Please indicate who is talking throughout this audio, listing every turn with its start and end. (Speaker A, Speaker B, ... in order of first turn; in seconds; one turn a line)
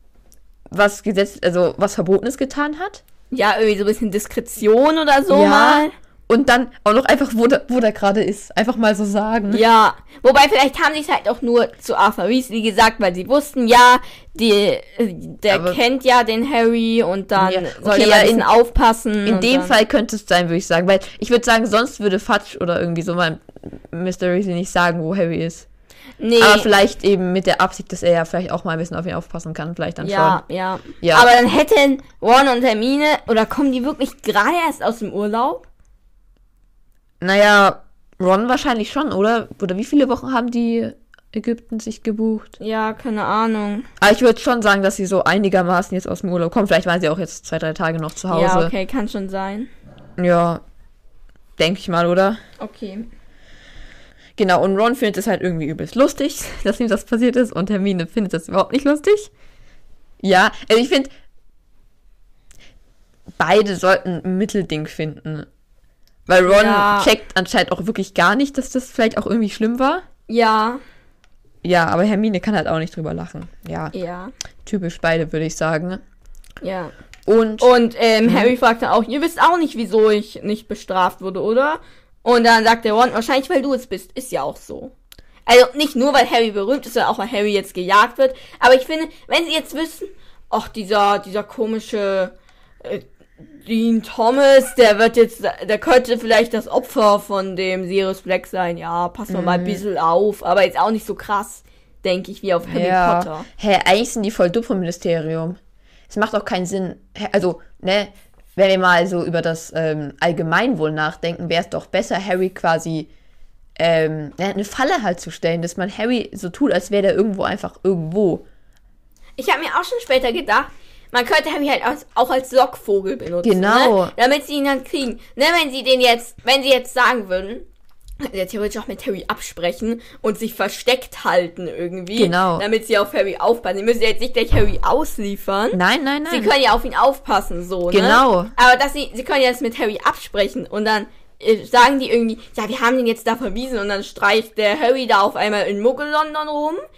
Speaker A: 0.7-3.0
Speaker B: 3.3-5.9
Speaker A: 5.3-9.6
Speaker B: 9.5-19.8
Speaker A: 15.5-15.8
Speaker A: 17.4-18.5
Speaker A: 19.2-25.6
Speaker B: 26.2-26.7
Speaker A: 26.4-30.4
Speaker B: 30.0-35.6
Speaker A: 31.0-31.3
Speaker A: 37.2-42.5
Speaker B: 42.6-43.9
Speaker A: 44.0-48.7
Speaker B: 48.3-49.7
Speaker A: 50.2-50.6
Speaker A: 51.6-52.4
Speaker B: 52.6-53.1
Speaker A: 54.4-59.3
Speaker A: 60.2-61.1
Speaker A: 63.4-65.5
Speaker A: 66.3-70.0
Speaker B: 66.5-67.1
Speaker B: 70.3-70.8
Speaker A: 71.6-73.9
Speaker B: 73.9-74.3
Speaker A: 74.7-76.0
Speaker B: 76.6-76.9
Speaker A: 77.2-77.7
Speaker B: 77.6-84.9
Speaker A: 78.2-78.5
Speaker B: 85.5-93.0
Speaker B: 93.6-103.5
Speaker A: 99.3-99.8
Speaker A: 102.7-113.1
Speaker A: 113.8-118.4
Speaker B: 119.4-127.7
Speaker A: 123.4-124.1
Speaker B: 128.2-146.8
Speaker A: 132.1-132.7
Speaker A: 135.7-136.5
Speaker A: 137.9-138.5